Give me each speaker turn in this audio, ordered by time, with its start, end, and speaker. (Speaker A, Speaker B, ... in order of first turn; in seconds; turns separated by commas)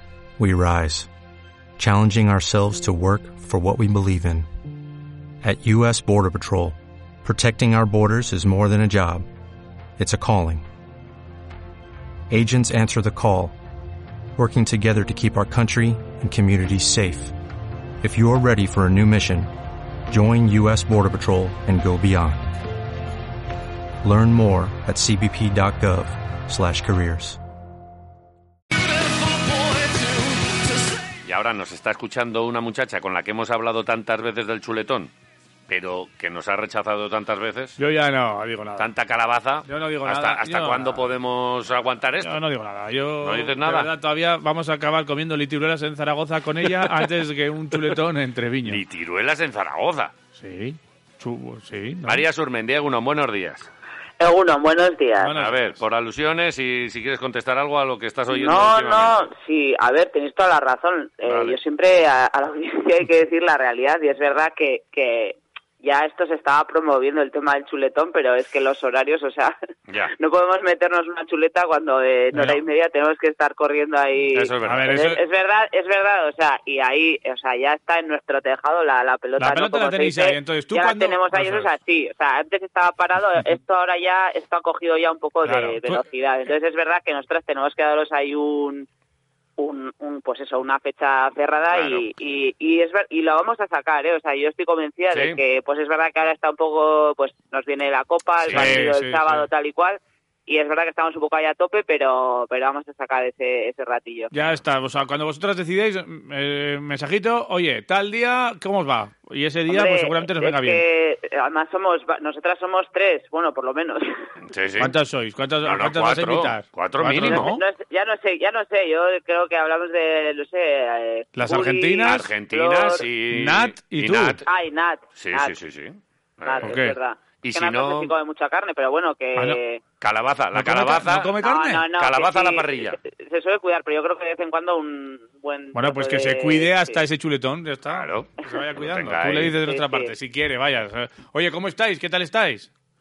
Speaker A: 0.4-1.1, Speaker A: 1.8-4.5, Speaker A: 5.4-9.2, Speaker A: 10.0-10.6, Speaker A: 12.3-13.6, Speaker A: 14.4-17.3, Speaker A: 18.0-19.5, Speaker A: 20.1-22.5, Speaker A: 24.0-27.4, Speaker B: 31.2-35.1, Speaker B: 35.7-37.8, Speaker C: 37.8-38.9, Speaker B: 38.8-42.3, Speaker C: 39.7-41.1, Speaker C: 42.2-48.8, Speaker B: 43.2-43.9, Speaker B: 48.7-50.1, Speaker C: 50.4-52.2, Speaker B: 52.1-53.7, Speaker D: 54.2-55.4, Speaker C: 55.2-55.7, Speaker B: 55.4-59.3, Speaker D: 58.3-69.5, Speaker B: 61.2-61.6, Speaker D: 70.1-88.9, Speaker C: 72.3-72.6, Speaker B: 74.3-74.9, Speaker C: 74.6-75.2, Speaker C: 79.4-81.7, Speaker C: 85.4-86.0, Speaker D: 89.6-104.3, Speaker B: 91.7-92.0, Speaker B: 95.1-95.4, Speaker B: 98.4-98.8, Speaker C: 98.5-99.5, Speaker C: 104.3-110.8, Speaker D: 109.7-114.1, Speaker B: 114.5-114.9, Speaker C: 114.8-117.6, Speaker B: 115.6-117.5, Speaker D: 117.2-123.1, Speaker C: 121.3-122.2, Speaker B: 122.0-124.4, Speaker C: 123.3-124.4, Speaker D: 124.5-125.5, Speaker B: 125.2-126.7, Speaker D: 126.5-129.8, Speaker C: 126.6-127.0, Speaker B: 127.4-128.1, Speaker B: 130.0-131.3, Speaker C: 130.5-131.9, Speaker D: 131.4-137.0, Speaker B: 132.0-133.0, Speaker C: 135.7-142.7, Speaker B: 137.9-139.6, Speaker D: 139.7-140.1